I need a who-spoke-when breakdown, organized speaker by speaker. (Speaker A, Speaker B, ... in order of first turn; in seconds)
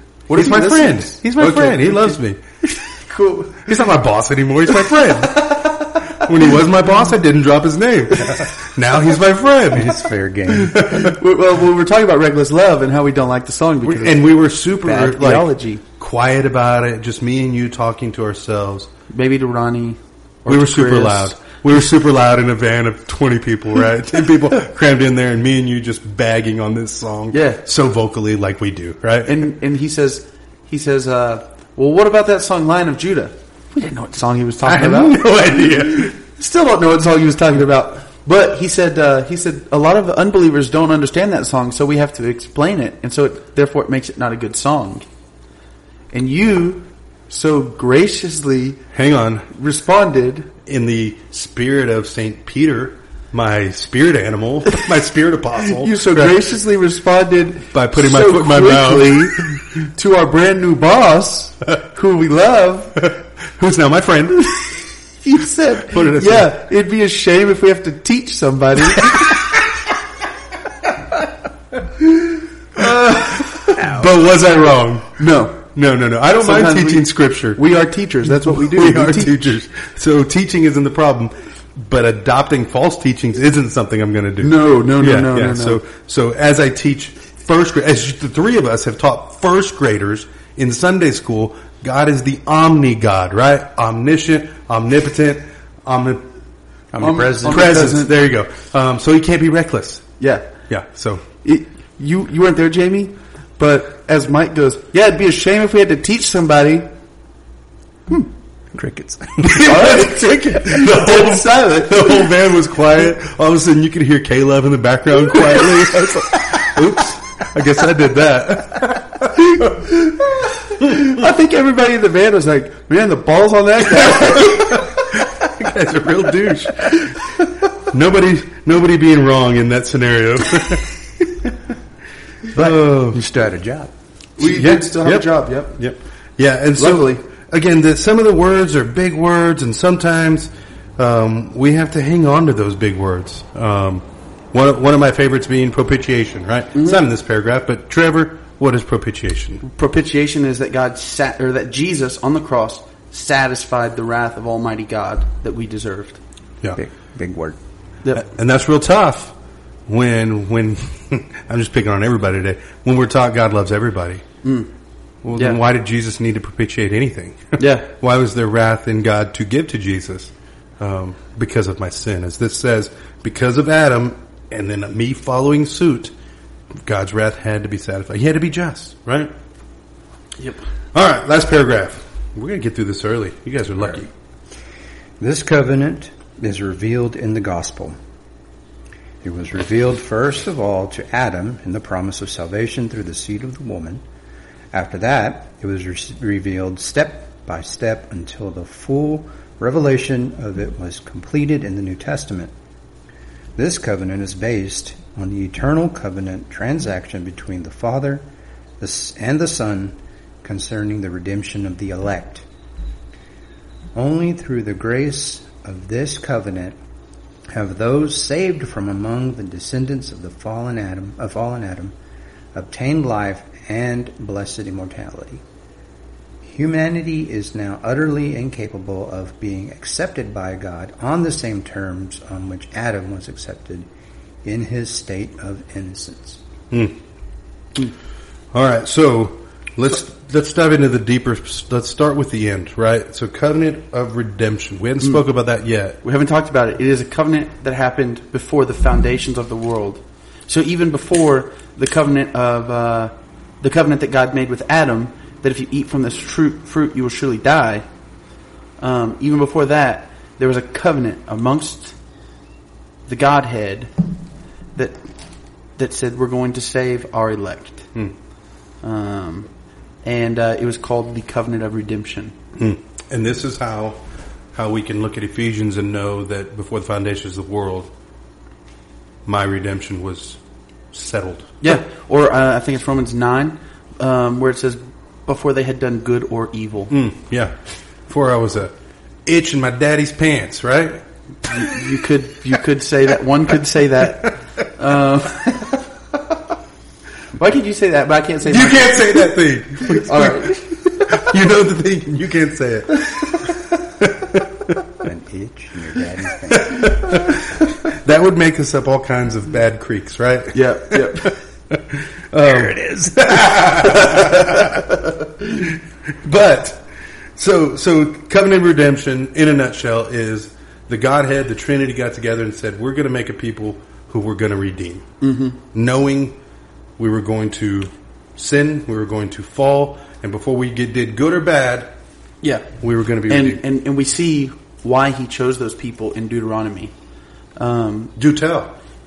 Speaker A: 0.3-2.4, 3.6-10.0, 10.7-11.2, 13.8-18.9, 20.5-29.5, 34.7-36.1, 48.9-49.5, 50.7-56.5, 57.7-59.5, 63.0-64.9, 65.9-66.5, 69.1-69.5, 72.8-77.6, 78.2-96.2, 97.4-100.1, 100.7-101.2, 109.4-119.9, 124.1-131.5, 132.5-133.2, 134.4-149.6, 158.1-159.3, 159.9-164.2, 165.2-176.1, 176.8-179.3, 180.9-184.1, 236.7-237.0, 238.5-246.0, 272.6-274.0, 274.5-277.9, 279.3-280.4, 280.9-281.6, 286.9-287.6, 288.1-288.7, 289.3-291.0, 291.6-292.0, 298.5-304.8, 306.5-316.9, 317.4-325.1, 325.7-326.4, 327.0-331.9, 332.8-333.6, 338.2-338.7
Speaker B: 0.3-3.7, 4.9-6.5, 10.7-15.8, 19.1-21.4, 27.3-27.6, 29.2-45.1, 46.1-48.8, 49.5-50.5, 55.7-63.0, 65.2-69.5, 72.8-73.6, 75.2-75.7, 76.3-79.5, 84.4-85.8, 97.0-98.1, 100.2-100.5, 101.4-106.9, 109.5-112.3, 115.3-115.9, 119.5-125.2, 134.4-135.8, 136.8-137.2, 149.6-156.2, 164.4-164.7, 167.6-167.9, 246.0-257.9, 258.8-262.0, 263.1-263.9, 265.8-267.9, 268.8-269.5, 270.0-272.4, 281.6-286.9, 291.5-295.8, 297.4-299.3, 299.8-301.3, 310.5-311.4, 313.9-315.1, 325.2-325.6, 332.4-332.7, 333.3-336.9, 337.6-338.1
Speaker C: 9.7-10.8, 96.9-97.7, 108.7-109.8, 132.5-133.9, 156.8-157.6, 185.2-188.0, 189.2-194.0, 194.7-202.5, 203.6-208.3, 208.8-212.5, 213.9-216.8, 217.5-221.9, 222.5-225.4, 226.4-233.9, 234.4-236.4, 305.0-307.4, 312.4-313.6